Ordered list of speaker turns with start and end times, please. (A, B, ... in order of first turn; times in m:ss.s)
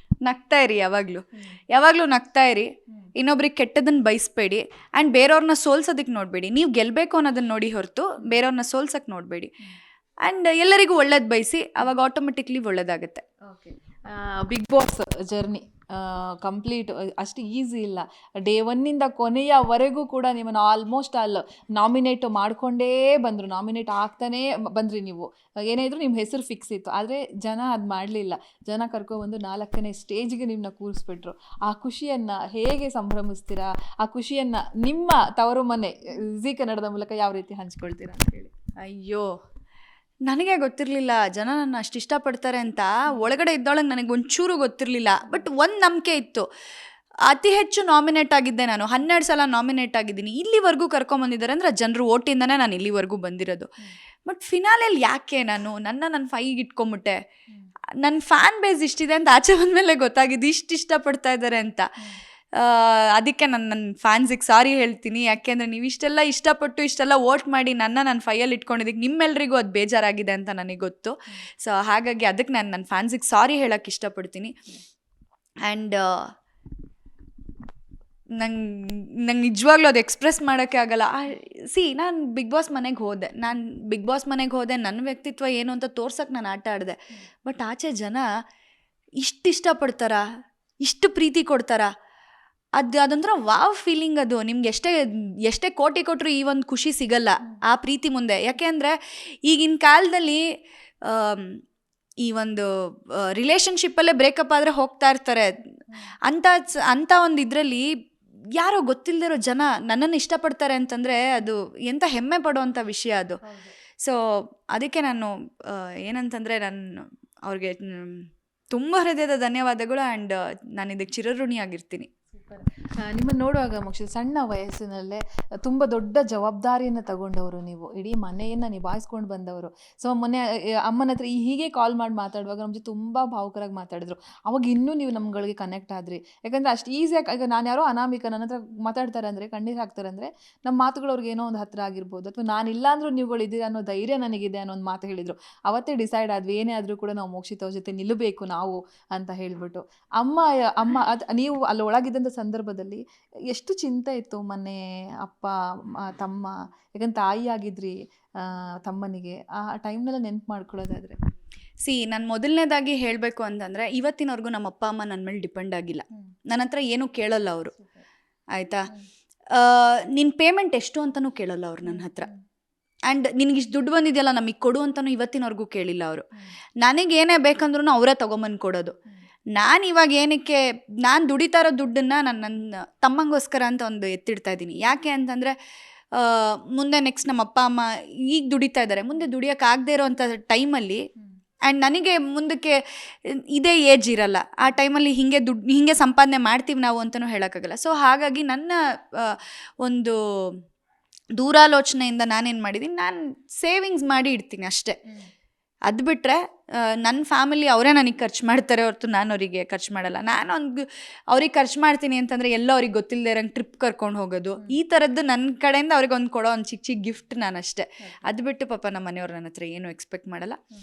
0:00.2-0:09.5 A
0:10.2-0:13.2 A
0:13.4-0:38.5 B
0:38.8-0:39.3 A
0:40.2-0:46.5 A
0:47.3-0:53.7 A
0:54.2-0:57.2 A
0:58.0-1:01.8 A
1:02.6-1:14.5 A
1:15.6-1:16.3 A
1:18.4-1:28.3 A
1:29.2-1:30.2 A
1:30.8-1:31.9 A
1:32.8-1:40.4 A
1:41.0-1:41.6 A
1:42.2-1:45.5 A
1:46.2-1:47.9 A
1:48.6-1:53.4 A
1:53.4-1:53.7 B
1:54.0-2:02.1 A
2:02.3-2:41.2 B
2:41.8-2:47.7 A
2:47.8-2:48.0 B
2:48.5-2:48.9 A
2:49.5-2:52.3 A
2:51.8-2:52.4 B
2:53.1-2:56.3 A
2:56.8-2:59.0 A
2:59.5-3:05.5 A
3:06.1-3:11.0 A
3:11.6-3:20.6 A
3:21.4-3:25.0 A
3:25.8-3:40.6 A